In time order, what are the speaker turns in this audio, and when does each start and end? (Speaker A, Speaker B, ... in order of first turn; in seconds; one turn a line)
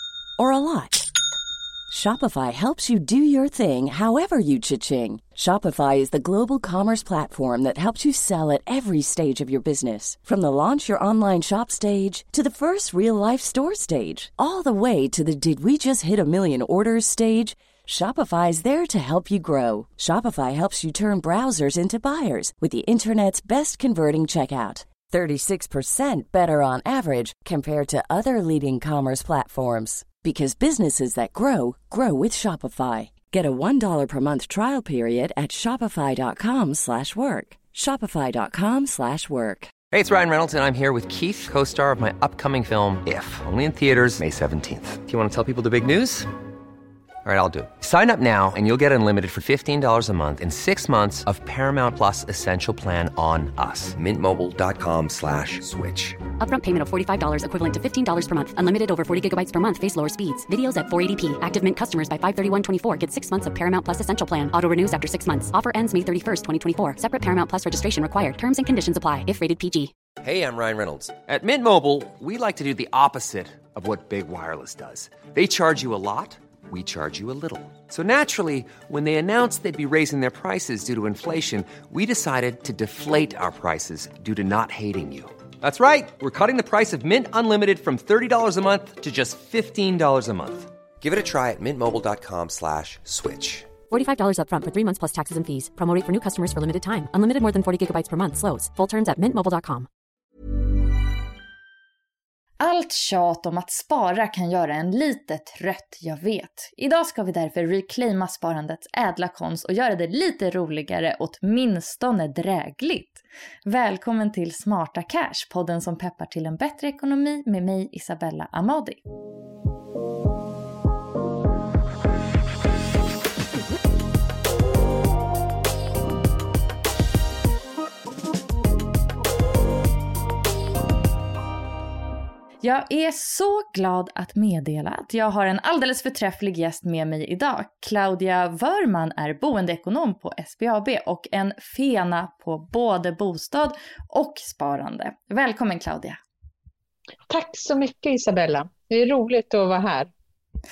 Speaker A: 0.4-1.1
Speaker A: 1.9-39.7
Speaker B: 39.9-46.3
Speaker B: 47.2-56.2
Speaker C: 56.4-69.9
Speaker B: 70.2-93.7
Speaker C: 93.9-99.9
Speaker D: 102.6-119.0
Speaker D: 132.6-146.2
Speaker E: 147.3-150.1